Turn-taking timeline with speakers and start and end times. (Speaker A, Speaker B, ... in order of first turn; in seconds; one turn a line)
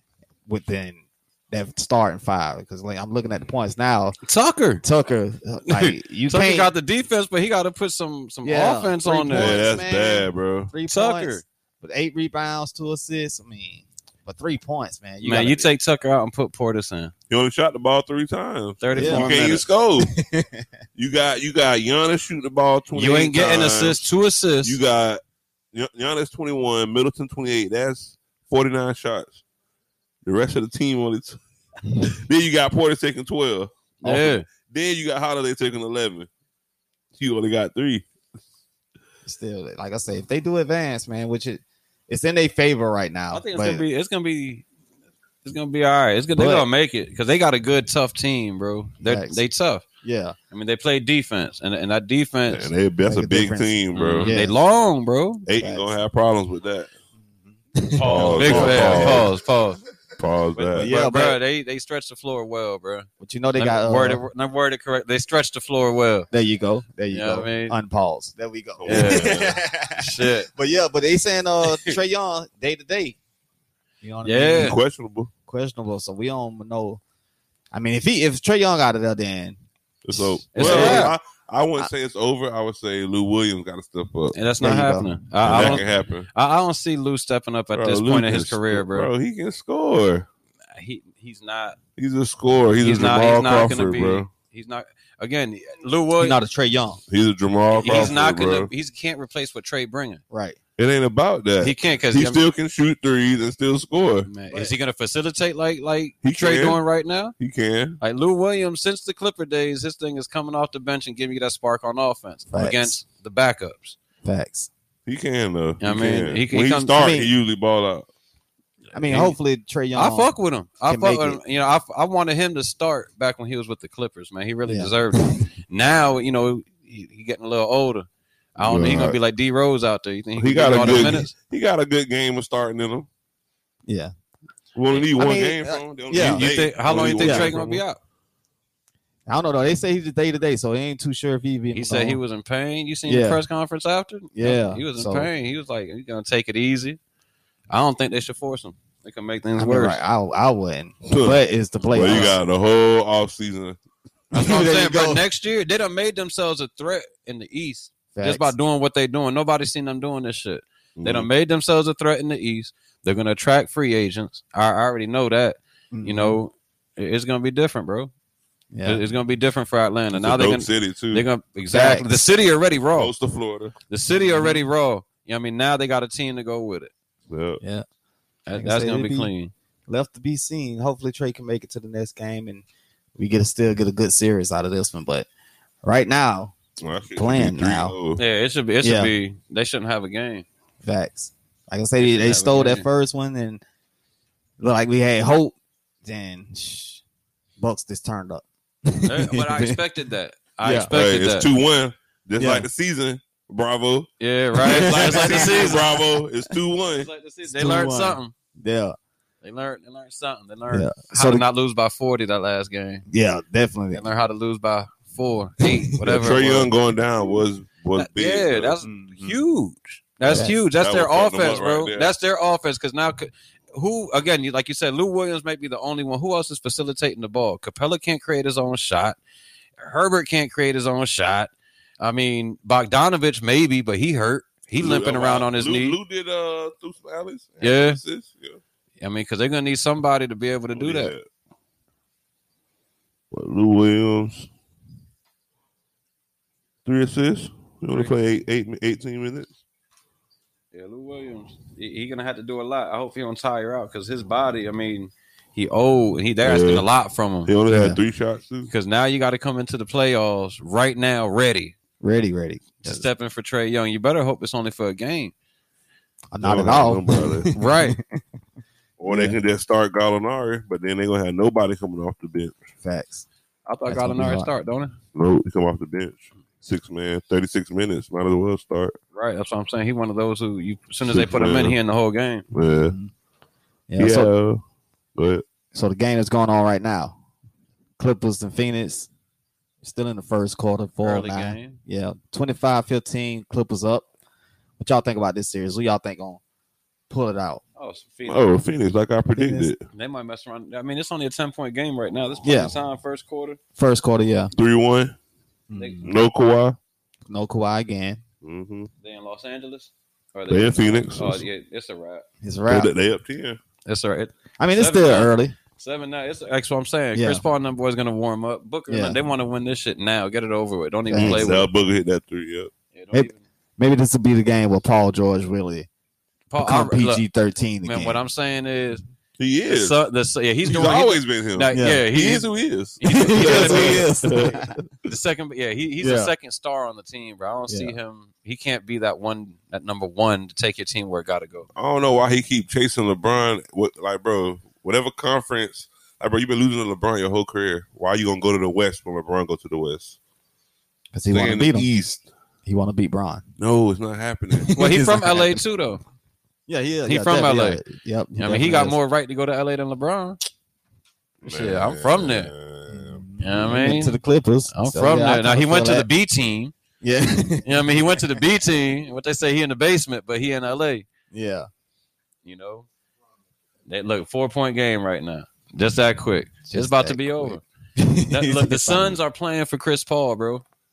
Speaker A: 0.5-4.2
Speaker B: 4.2-4.8
Speaker A: 4.8-6.7
Speaker B: 5.7-9.6
Speaker A: 8.4-15.7
Speaker C: 9.3-10.7
Speaker B: 10.9-11.4
Speaker B: 15.2-17.1
Speaker C: 17.3-20.1
Speaker B: 18.8-19.6
Speaker A: 18.9-20.6
Speaker C: 21.0-24.1
Speaker B: 22.9-24.8
Speaker C: 24.6-25.2
Speaker C: 25.7-29.4
Speaker C: 30.2-31.4
Speaker C: 32.0-36.3
Speaker B: 34.0-34.5
Speaker C: 37.2-38.0
Speaker A: 39.2-43.8
Speaker B: 43.3-44.7
Speaker B: 45.5-49.9
Speaker A: 46.4-46.7
Speaker A: 49.0-49.4
Speaker A: 50.0-50.4
Speaker B: 50.5-52.7
Speaker C: 52.5-54.4
Speaker A: 53.1-54.6
Speaker B: 53.9-55.5
Speaker C: 55.5-56.9
Speaker A: 55.6-55.9
Speaker A: 57.8-59.3
Speaker B: 57.9-59.8
Speaker C: 58.0-59.3
Speaker C: 60.2-60.9
Speaker B: 60.5-66.3
Speaker A: 60.8-61.4
Speaker A: 63.2-64.2
Speaker A: 66.3-73.2
Speaker B: 67.1-67.8
Speaker C: 68.8-69.6
Speaker B: 68.9-69.4
Speaker B: 70.0-70.5
Speaker B: 71.7-72.0
Speaker A: 74.0-74.8
Speaker B: 74.2-74.8
Speaker C: 74.6-75.3
Speaker A: 75.5-77.0
Speaker A: 77.7-79.6
Speaker C: 80.0-84.4
Speaker A: 80.1-81.1
Speaker B: 80.5-81.2
Speaker B: 84.3-89.1
Speaker A: 84.6-85.8
Speaker C: 85.4-86.3
Speaker C: 87.7-90.3
Speaker B: 90.7-91.8
Speaker C: 92.0-94.3
Speaker B: 92.8-96.4
Speaker A: 96.2-97.0
Speaker C: 97.1-98.7
Speaker B: 97.8-100.2
Speaker A: 100.3-100.6
Speaker C: 100.8-104.3
Speaker B: 101.6-102.4
Speaker B: 104.3-107.4
Speaker C: 106.2-106.8
Speaker C: 107.4-108.0
Speaker B: 108.0-114.0
Speaker A: 112.5-112.9
Speaker A: 114.2-114.7
Speaker C: 115.1-118.1
Speaker B: 115.8-117.0
Speaker A: 117.0-117.3
Speaker A: 118.9-120.3
Speaker B: 119.0-119.4
Speaker B: 120.0-131.3
Speaker A: 120.9-121.4
Speaker A: 124.7-125.5
Speaker C: 128.6-129.2
Speaker C: 130.4-133.1
Speaker A: 130.8-131.2
Speaker A: 133.9-134.1
Speaker C: 134.8-137.8
Speaker A: 135.2-136.4
Speaker B: 136.2-138.0
Speaker A: 137.2-137.6
Speaker A: 139.3-142.2
Speaker B: 141.7-147.0
Speaker A: 143.1-143.4
Speaker A: 144.3-145.3
Speaker B: 147.7-150.0
Speaker A: 149.6-152.3
Speaker C: 151.1-151.4
Speaker B: 151.8-152.3
Speaker C: 151.9-153.8
Speaker A: 154.3-155.2
Speaker B: 154.3-168.1
Speaker A: 158.1-158.5
Speaker C: 161.0-161.3
Speaker A: 165.9-166.4
Speaker A: 168.7-169.0
Speaker B: 168.9-173.1
Speaker C: 170.1-171.2
Speaker A: 171.7-172.2
Speaker C: 172.9-173.8
Speaker B: 173.9-176.9
Speaker A: 174.1-174.7
Speaker C: 177.3-177.6
Speaker B: 178.5-179.5
Speaker A: 178.5-179.3
Speaker A: 179.9-182.7
Speaker A: 183.2-185.3
Speaker A: 185.8-186.6
Speaker C: 186.8-188.2
Speaker A: 187.2-187.9
Speaker B: 188.2-190.4
Speaker A: 188.8-189.1
Speaker A: 190.8-193.6
Speaker B: 192.0-192.9
Speaker A: 194.6-197.0
Speaker A: 197.6-199.8
Speaker B: 199.0-201.5
Speaker A: 200.6-200.9
Speaker C: 200.9-204.1
Speaker A: 202.4-202.7
Speaker B: 204.2-206.0
Speaker A: 204.6-205.8
Speaker C: 204.7-207.1
Speaker B: 206.9-208.3
Speaker A: 207.4-209.0
Speaker B: 209.4-213.1
Speaker A: 210.7-211.4
Speaker A: 213.1-214.0
Speaker B: 213.9-216.7
Speaker A: 215.6-216.3
Speaker C: 216.0-218.8
Speaker B: 218.0-229.2
Speaker A: 218.8-219.4
Speaker A: 220.3-220.6
Speaker C: 220.3-222.2
Speaker B: 229.8-236.0
Speaker C: 234.8-238.6
Speaker B: 237.6-238.0
Speaker B: 239.0-241.1
Speaker C: 240.7-241.3
Speaker C: 243.3-244.5
Speaker C: 246.8-249.6
Speaker B: 250.7-257.5
Speaker C: 256.4-256.9
Speaker C: 257.5-258.7
Speaker A: 257.7-258.0
Speaker B: 258.7-261.8
Speaker A: 262.0-263.1
Speaker B: 262.8-265.3
Speaker A: 266.3-268.2
Speaker C: 266.4-267.5
Speaker B: 267.6-268.0
Speaker C: 269.0-272.6
Speaker A: 269.1-269.4
Speaker A: 272.8-273.3
Speaker B: 273.7-274.9
Speaker A: 273.9-274.5
Speaker C: 275.1-279.0
Speaker B: 279.1-282.4
Speaker C: 281.0-281.8
Speaker C: 282.5-282.9
Speaker A: 283.9-284.3
Speaker C: 284.0-284.6
Speaker C: 285.2-285.4
Speaker A: 285.7-287.2
Speaker A: 288.0-289.1
Speaker A: 289.8-294.1
Speaker B: 291.0-291.8
Speaker A: 294.8-296.4
Speaker A: 297.1-297.6
Speaker B: 297.8-298.5
Speaker C: 298.3-299.8
Speaker A: 299.4-299.7
Speaker B: 299.9-303.6
Speaker A: 302.4-302.8
Speaker A: 303.8-304.5
Speaker C: 304.6-305.1
Speaker A: 305.7-306.1
Speaker C: 306.0-306.8
Speaker A: 307.3-308.2
Speaker C: 308.4-308.9
Speaker B: 309.0-312.2
Speaker C: 310.5-311.5
Speaker A: 312.4-312.9
Speaker C: 312.7-313.6
Speaker B: 313.9-321.7
Speaker A: 314.6-315.6
Speaker A: 317.1-317.4
Speaker A: 318.9-319.2
Speaker A: 321.1-321.6
Speaker C: 321.1-322.7
Speaker B: 322.9-323.4
Speaker A: 323.1-325.9
Speaker B: 326.5-327.2
Speaker A: 326.6-328.2
Speaker B: 327.9-329.0
Speaker C: 329.4-330.0
Speaker B: 329.7-334.3
Speaker C: 330.6-334.8
Speaker A: 331.7-332.0
Speaker A: 333.1-334.7
Speaker B: 335.1-341.7
Speaker A: 336.0-336.3
Speaker A: 337.7-338.0
Speaker C: 341.8-350.2
Speaker A: 351.1-351.9
Speaker C: 351.3-352.3
Speaker A: 352.7-353.4
Speaker C: 353.6-354.7
Speaker A: 354.6-355.6
Speaker B: 354.8-356.0
Speaker A: 356.7-359.0
Speaker B: 357.1-357.8
Speaker B: 358.4-360.4
Speaker C: 361.4-363.7
Speaker B: 361.5-362.5
Speaker A: 362.9-366.1
Speaker B: 363.4-364.2
Speaker B: 364.7-366.7
Speaker A: 367.0-368.0
Speaker B: 367.6-371.1
Speaker A: 371.3-371.7
Speaker B: 372.4-372.9
Speaker B: 373.9-377.6
Speaker A: 376.7-379.2
Speaker B: 378.3-380.6